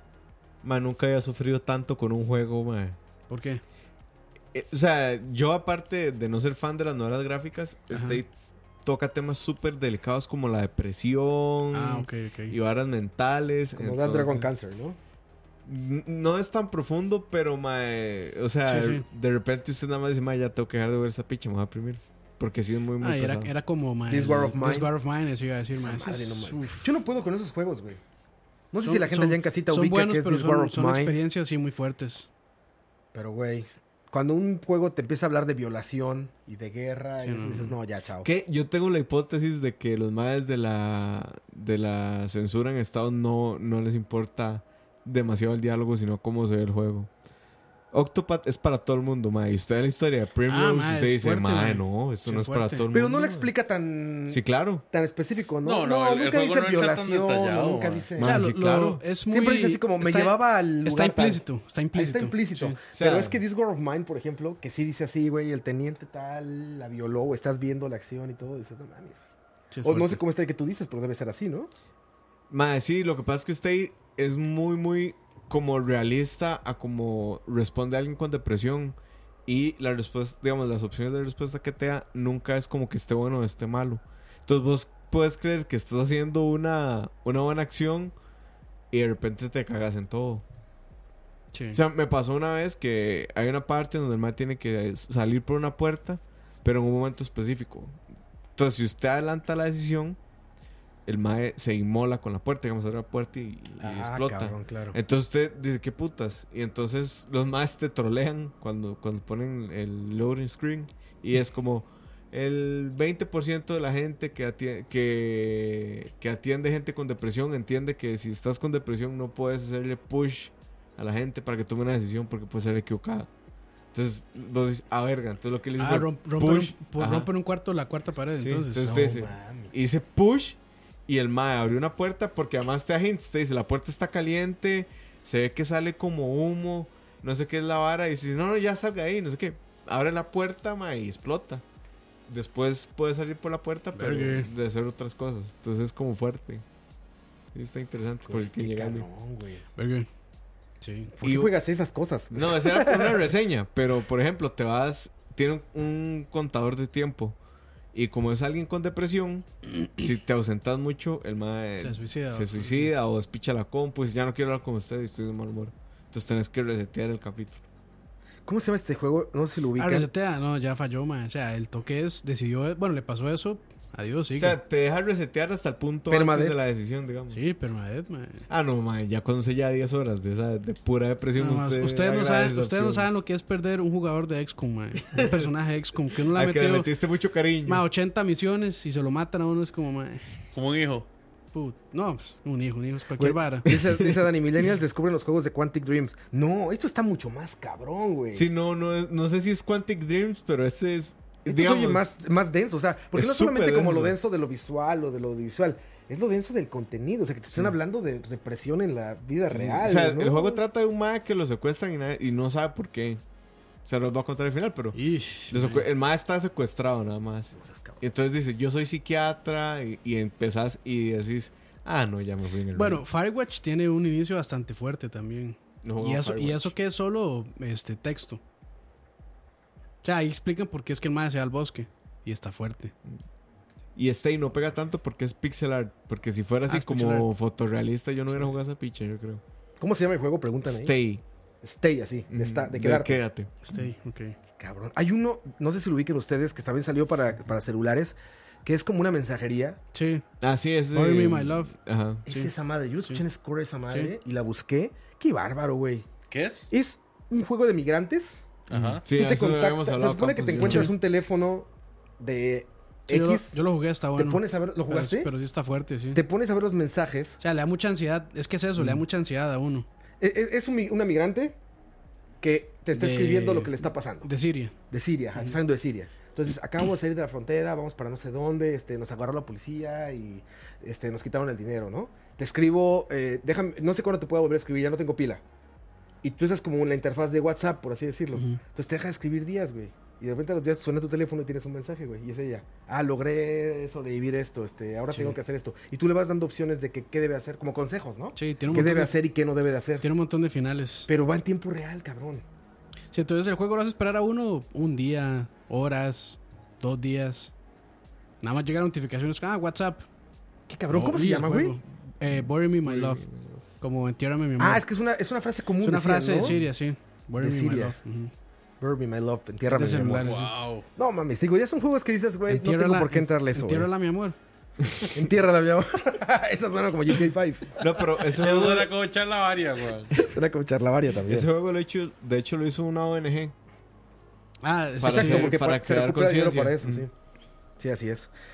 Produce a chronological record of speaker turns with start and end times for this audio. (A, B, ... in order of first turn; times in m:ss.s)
0:00.6-0:03.0 A
0:03.3-0:03.6 B
0:04.5-0:08.3 A
0:07.9-0:08.2 B
0:08.8-0:14.5 A
0:11.7-0:12.5 B
0:13.8-0:15.0 C
0:15.6-0:23.5 A
0:18.6-0:19.0 B
0:23.0-0:26.9 B
0:24.1-0:24.9 C
0:25.7-0:28.0 C
0:28.7-0:31.2 C
0:28.8-0:32.3 B
0:33.1-0:38.3 C
0:37.2-0:37.7 B
0:38.2-0:47.1 A
0:47.9-0:53.5 A
0:50.5-0:52.8 B
0:52.9-0:58.4 C
0:54.3-0:54.8 A
0:55.6-0:58.1 D
0:58.2-0:59.0 A
0:58.2-1:02.8 B
0:59.3-1:09.2 C
1:02.9-1:03.4 A
1:09.7-1:10.2 B
1:09.8-1:11.7 C
1:12.5-1:28.1 A
1:28.9-1:30.4 A
1:31.5-1:31.8 B
1:31.7-1:38.0 A
1:38.6-1:40.2 A
1:41.0-2:03.3 A
1:43.8-1:45.0 C
2:03.9-2:07.3 A
2:05.8-2:09.2 B
2:08.4-2:21.6 A
2:08.9-2:09.7 C
2:22.3-2:26.6 A
2:23.9-2:24.5 B
2:27.5-2:29.1 A
2:28.3-2:29.6 C
2:29.8-2:30.1 B
2:30.8-2:31.1 B
2:31.2-2:33.3 C
2:31.2-2:31.5 A
2:32.3-2:37.4 A
2:37.9-2:47.6 A
2:41.8-2:42.9 B
2:48.4-2:50.1 C
2:49.8-2:54.6 B
2:54.4-2:57.4 A
2:56.1-2:56.6 C
2:57.3-2:58.4 B
2:58.5-3:03.1 A
3:01.4-3:06.9 B
3:05.0-3:05.5 A
3:06.2-3:07.8 A
3:07.6-3:10.2 B
3:10.5-3:11.1 D
3:11.5-3:13.7 B
3:13.2-3:14.2 A
3:13.6-3:18.5 C
3:18.3-3:22.1 A
3:21.4-3:30.6 C
3:23.1-3:24.1 A
3:29.5-3:33.2 A
3:33.8-3:35.0 A
3:34.9-3:35.8 B
3:35.5-3:43.0 A
3:37.5-3:38.0 C
3:42.7-3:48.4 B
3:45.8-3:46.7 A
3:50.0-3:52.9 B
3:54.0-3:59.4 A
3:56.7-3:57.3 B
3:59.8-4:00.9 C
4:00.6-4:01.2 A
4:01.6-4:03.2 C
4:02.3-4:03.7 A
4:03.6-4:04.4 B
4:04.6-4:09.8 C
4:09.9-4:10.2 B
4:10.4-4:12.2 A
4:10.9-4:11.7 B
4:12.2-4:16.1 C
4:13.9-4:14.1 B
4:16.3-4:16.7 D
4:16.7-4:18.5 C
4:18.7-4:19.0 D
4:18.7-4:20.9 A
4:19.1-4:23.6 C
4:20.6-4:20.9 B
4:23.1-4:26.2 B
4:24.2-4:25.3 C
4:26.1-4:27.4 C
4:27.4-4:29.8 B
4:30.2-4:31.6 C
4:32.4-4:34.3 C
4:32.9-4:34.7 B
4:34.9-4:45.4 C
4:46.2-5:00.0 C
4:48.3-4:48.6 B
4:55.1-4:55.4 B
4:58.3-4:59.1 B
5:00.0-5:01.1 B
5:01.1-5:02.4 C
5:03.1-5:07.5 B
5:08.4-5:10.0 B
5:10.7-5:11.8 C
5:10.9-5:13.2 B
5:12.8-5:13.6 A
5:13.8-5:14.8 B
5:14.6-5:16.6 C
5:15.8-5:18.3 B
5:17.4-5:18.0 C
5:18.8-5:20.4 C
5:19.7-5:20.8 B
5:20.2-5:20.7 D
5:21.0-5:23.9 C
5:22.5-5:24.4 B
5:25.1-5:27.8 C
5:27.8-5:28.9 A
5:28.3-5:30.1 D
5:30.1-5:31.5 C
5:31.2-5:33.5 A
5:34.6-5:35.5 B
5:35.0-5:37.0 A
5:35.0-5:37.1 C
5:37.8-5:38.3 C